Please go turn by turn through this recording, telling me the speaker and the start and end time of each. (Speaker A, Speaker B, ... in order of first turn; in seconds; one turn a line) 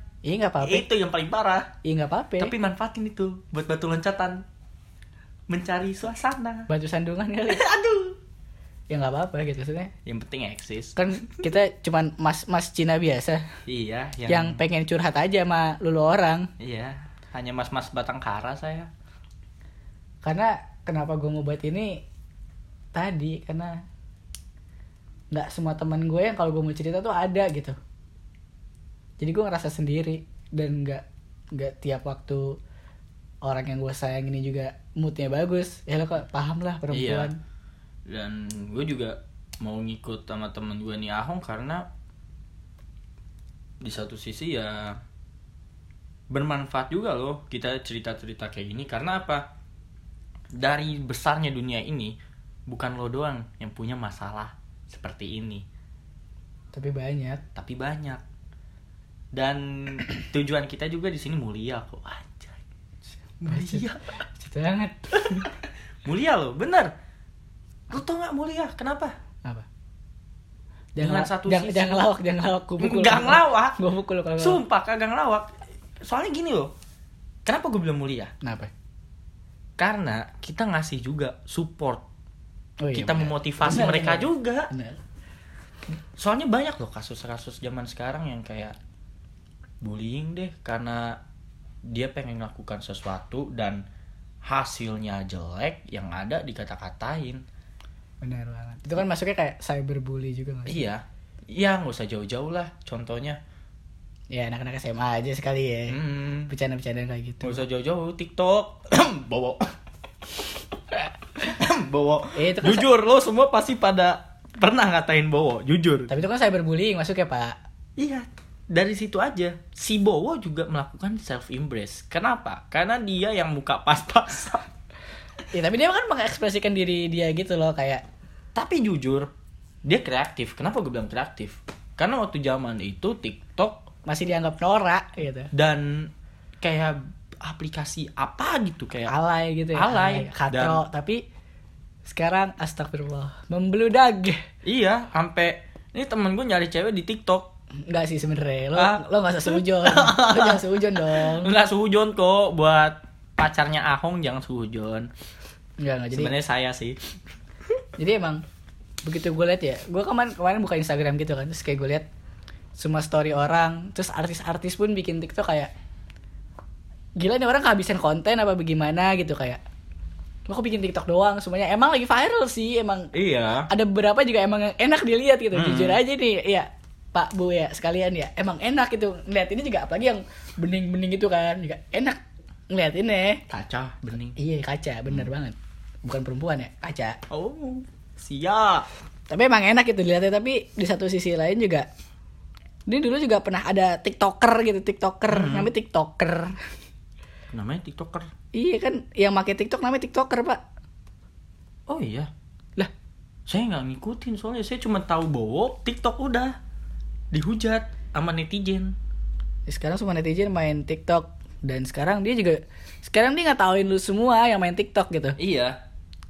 Speaker A: 0.2-0.9
Speaker B: 0.6-1.7
Speaker A: 1.8-2.5
Speaker B: 2.4-4.5
Speaker B: 5.5-6.7
Speaker A: 6.7-7.7
Speaker B: 7.5-8.2
Speaker A: 8.9-9.9
Speaker B: 10.1-11.5
Speaker A: 11.0-13.4
Speaker B: 13.7-14.6
Speaker A: 14.3-16.5
Speaker B: 16.6-18.9
Speaker A: 20.2-22.0
Speaker A: 22.9-23.8
Speaker A: 25.3-27.8
Speaker A: 29.2-31.0
Speaker A: 31.6-32.6
Speaker A: 33.5-37.4
Speaker B: 36.9-37.3
Speaker B: 38.1-41.9
Speaker B: 43.8-45.0
Speaker B: 46.3-49.5
Speaker B: 50.5-55.6
Speaker A: 56.7-57.4
Speaker B: 57.5-58.2
Speaker B: 59.3-62.6
Speaker B: 63.4-64.2
Speaker A: 63.5-65.5
Speaker B: 65.1-65.5
Speaker B: 66.0-66.9
Speaker B: 67.9-69.2
Speaker A: 71.0-74.6
Speaker B: 71.0-72.1
Speaker B: 72.8-73.8
Speaker B: 74.4-76.7
Speaker B: 77.5-78.3
Speaker A: 78.4-78.7
Speaker B: 79.8-82.0
Speaker A: 82.8-85.0
Speaker B: 82.9-84.7
Speaker B: 86.2-88.8
Speaker B: 89.8-91.2
Speaker B: 91.8-93.8
Speaker B: 94.5-97.4
Speaker A: 98.2-100.8
Speaker B: 100.7-103.4
Speaker A: 104.3-107.6
Speaker B: 105.9-106.5
Speaker B: 107.4-109.7
Speaker B: 111.4-116.1
Speaker A: 112.3-112.9
Speaker A: 116.1-117.6
Speaker B: 118.0-124.7
Speaker A: 125.5-128.0
Speaker B: 128.5-129.3
Speaker B: 129.8-133.9
Speaker A: 134.1-135.5
Speaker B: 135.5-139.1
Speaker A: 139.1-141.2
Speaker B: 139.7-140.8
Speaker A: 142.1-144.4
Speaker B: 144.6-147.5
Speaker A: 147.8-151.6
Speaker B: 148.8-155.1
Speaker A: 155.8-156.3
Speaker B: 156.1-157.0
Speaker A: 158.0-158.4
Speaker A: 159.0-162.1
Speaker A: 162.8-165.7
Speaker A: 167.2-169.6
Speaker A: 170.5-173.1
Speaker B: 173.1-173.7
Speaker A: 173.7-182.2
Speaker B: 175.5-176.0
Speaker A: 182.7-183.4
Speaker B: 183.5-184.4
Speaker A: 184.4-187.2
Speaker B: 187.3-188.9
Speaker A: 189.3-191.9
Speaker A: 192.9-196.6
Speaker B: 195.3-195.7
Speaker B: 197.5-198.3
Speaker A: 198.5-200.6
Speaker B: 201.9-202.3
Speaker B: 203.5-206.6
Speaker B: 207.3-208.9
Speaker A: 209.7-215.4
Speaker B: 215.4-215.8